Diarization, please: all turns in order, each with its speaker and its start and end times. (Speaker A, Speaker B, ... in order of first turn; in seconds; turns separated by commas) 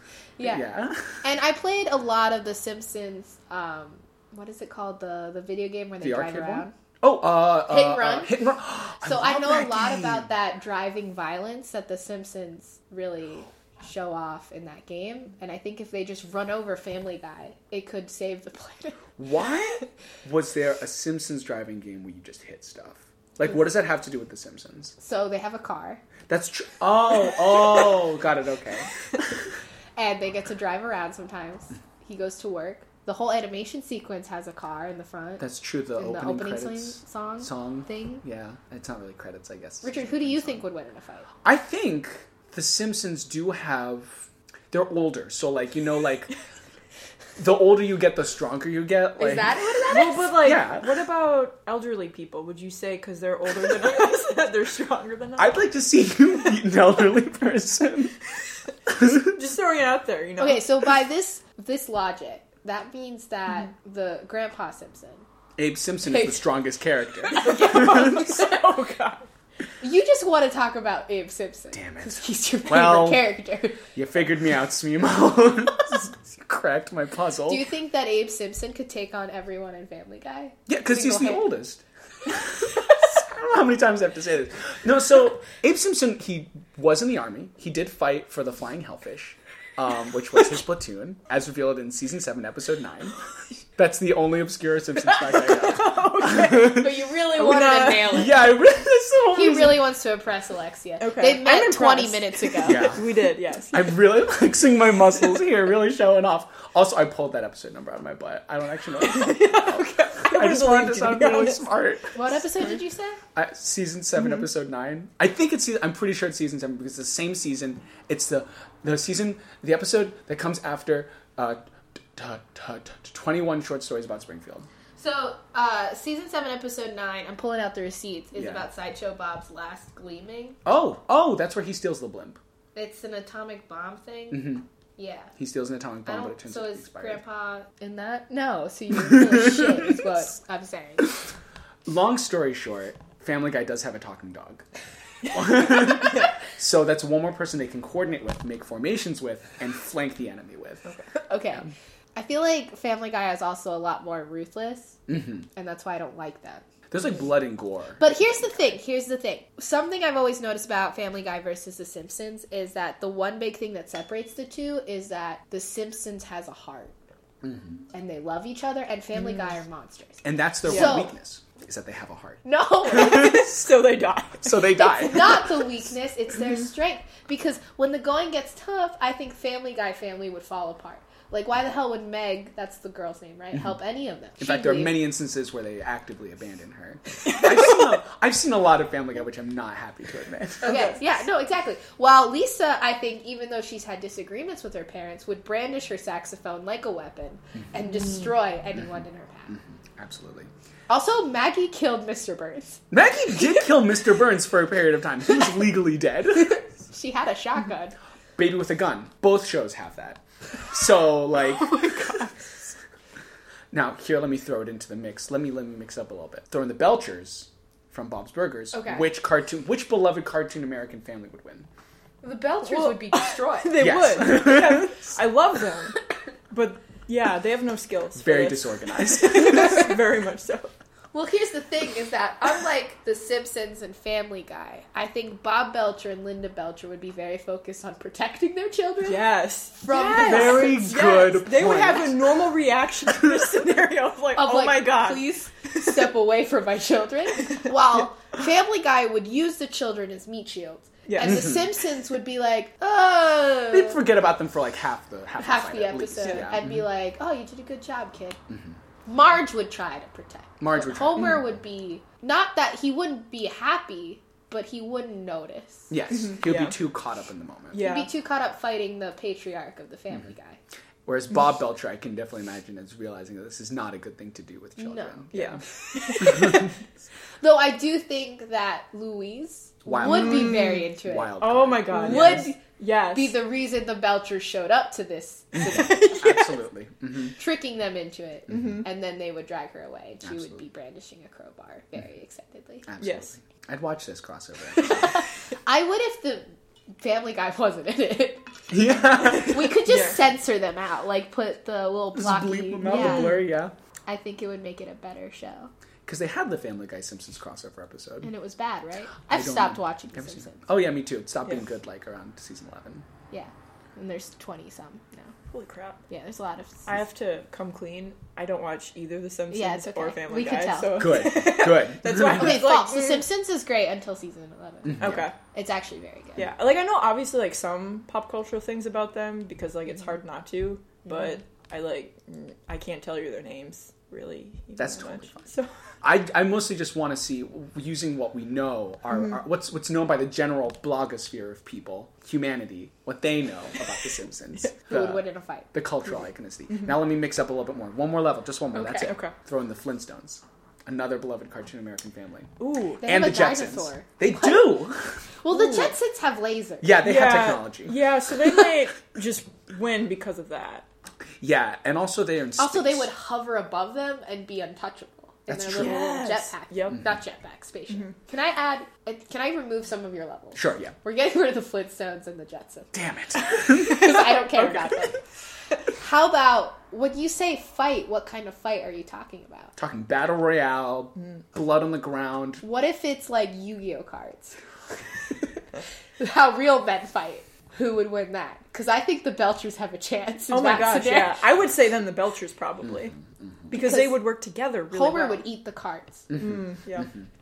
Speaker A: 0.4-6.7, Speaker B: 0.4-1.2, Speaker B: 6.0-10.3, Speaker A: 7.7-8.4, Speaker A: 9.0-19.0, Speaker B: 19.2-24.9, Speaker A: 25.0-26.0, Speaker B: 26.3-29.3, Speaker A: 30.0-35.5, Speaker B: 35.4-40.6, Speaker A: 36.0-38.2, Speaker A: 39.8-41.3, Speaker B: 41.4-46.3, Speaker B: 47.4-49.5, Speaker A: 49.2-50.5, Speaker C: 49.9-55.7, Speaker B: 50.2-50.9, Speaker B: 55.4-58.2, Speaker B: 58.9-59.3, Speaker C: 58.9-60.7, Speaker A: 60.4-65.3, Speaker B: 65.6-68.4, Speaker A: 66.0-66.5, Speaker C: 67.3-69.3, Speaker A: 69.8-73.9, Speaker B: 71.7-73.3, Speaker B: 73.9-77.7, Speaker A: 77.5-81.5, Speaker B: 80.7-93.2, Speaker B: 93.8-96.8, Speaker C: 95.1-98.3, Speaker A: 96.5-98.5, Speaker B: 98.1-99.9, Speaker A: 99.3-102.9, Speaker C: 101.0-103.9, Speaker B: 102.6-103.0, Speaker B: 103.7-112.2, Speaker C: 109.0-111.6, Speaker A: 112.1-113.2, Speaker B: 113.3-121.6, Speaker B: 122.1-124.7, Speaker A: 125.0-130.6, Speaker B: 128.3-128.7, Speaker B: 130.7-132.4, Speaker A: 132.8-135.3, Speaker B: 134.3-134.6, Speaker B: 135.4-137.2, Speaker A: 136.1-141.1, Speaker B: 139.1-139.8, Speaker B: 141.8-144.7, Speaker B: 145.3-150.9, Speaker A: 151.2-155.0, Speaker B: 155.1-155.5, Speaker A: 155.5-156.7, Speaker B: 156.9-158.6, Speaker A: 158.0-166.9, Speaker B: 167.4-167.8, Speaker A: 167.9-171.1, Speaker B: 170.2-172.4, Speaker C: 170.7-170.9, Speaker A: 172.4-173.5, Speaker C: 172.9-174.8, Speaker B: 174.4-175.5, Speaker A: 174.7-185.0, Speaker B: 184.4-190.9, Speaker A: 190.6-199.6, Speaker B: 199.5-200.5, Speaker A: 200.9-202.8, Speaker B: 202.9-206.6, Speaker A: 206.9-207.9, Speaker B: 208.4-211.8, Speaker C: 211.5-212.3, Speaker B: 213.7-221.7, Speaker A: 218.7-219.1, Speaker A: 222.2-223.9, Speaker C: 222.7-230.7, Speaker B: 223.8-224.9, Speaker B: 228.2-229.9, Speaker A: 231.1-241.2, Speaker C: 239.0-246.0, Speaker B: 240.2-242.2, Speaker A: 244.3-254.0, Speaker C: 251.1-251.5, Speaker B: 253.7-256.8, Speaker A: 255.4-258.4, Speaker B: 258.5-258.8, Speaker A: 259.1-265.9, Speaker B: 260.6-261.4, Speaker B: 265.9-267.9, Speaker C: 266.3-266.8, Speaker C: 267.7-268.1, Speaker A: 267.8-270.6, Speaker B: 271.1-275.6, Speaker A: 274.8-276.7, Speaker C: 275.3-276.6, Speaker B: 276.2-276.6, Speaker A: 277.4-281.4, Speaker B: 279.9-282.5, Speaker C: 279.9-283.4, Speaker A: 281.9-286.4, Speaker C: 285.6-286.5, Speaker B: 285.7-287.4, Speaker A: 287.4-292.9, Speaker C: 288.5-288.8, Speaker B: 290.2-290.6, Speaker B: 292.9-295.1, Speaker C: 293.0-293.3, Speaker A: 294.7-298.5, Speaker B: 298.7-299.8, Speaker A: 299.2-303.4, Speaker C: 299.9-300.1, Speaker B: 302.1-303.7, Speaker C: 302.8-303.4, Speaker A: 304.1-305.7, Speaker B: 306.1-308.3, Speaker A: 308.2-310.6, Speaker B: 309.3-313.1, Speaker A: 313.3-315.3, Speaker C: 315.5-316.0, Speaker A: 316.1-316.9, Speaker C: 316.9-323.3, Speaker A: 319.5-321.4, Speaker B: 321.0-322.6, Speaker A: 322.1-326.5, Speaker B: 324.9-325.3, Speaker C: 325.0-325.4, Speaker C: 326.4-335.7, Speaker A: 331.1-331.3, Speaker B: 334.8-335.4, Speaker B: 336.0-352.5, Speaker A: 344.9-345.7, Speaker A: 348.7-349.1, Speaker C: 348.9-349.4, Speaker C: 352.6-353.1, Speaker A: 353.0-354.8, Speaker B: 353.0-355.2, Speaker A: 355.4-356.9, Speaker C: 355.5-355.9, Speaker B: 356.8-358.0, Speaker C: 357.0-360.9, Speaker B: 361.4-363.1, Speaker A: 362.6-375.2, Speaker B: 365.5-366.1, Speaker C: 365.8-367.0, Speaker B: 370.5-370.9, Speaker B: 372.9-374.1, Speaker A: 375.9-379.8, Speaker B: 379.8-382.6, Speaker A: 382.6-384.6, Speaker A: 386.2-391.4, Speaker C: 390.5-393.2, Speaker C: 393.7-395.4, Speaker A: 393.7-394.2, Speaker A: 394.9-396.3, Speaker C: 396.4-397.1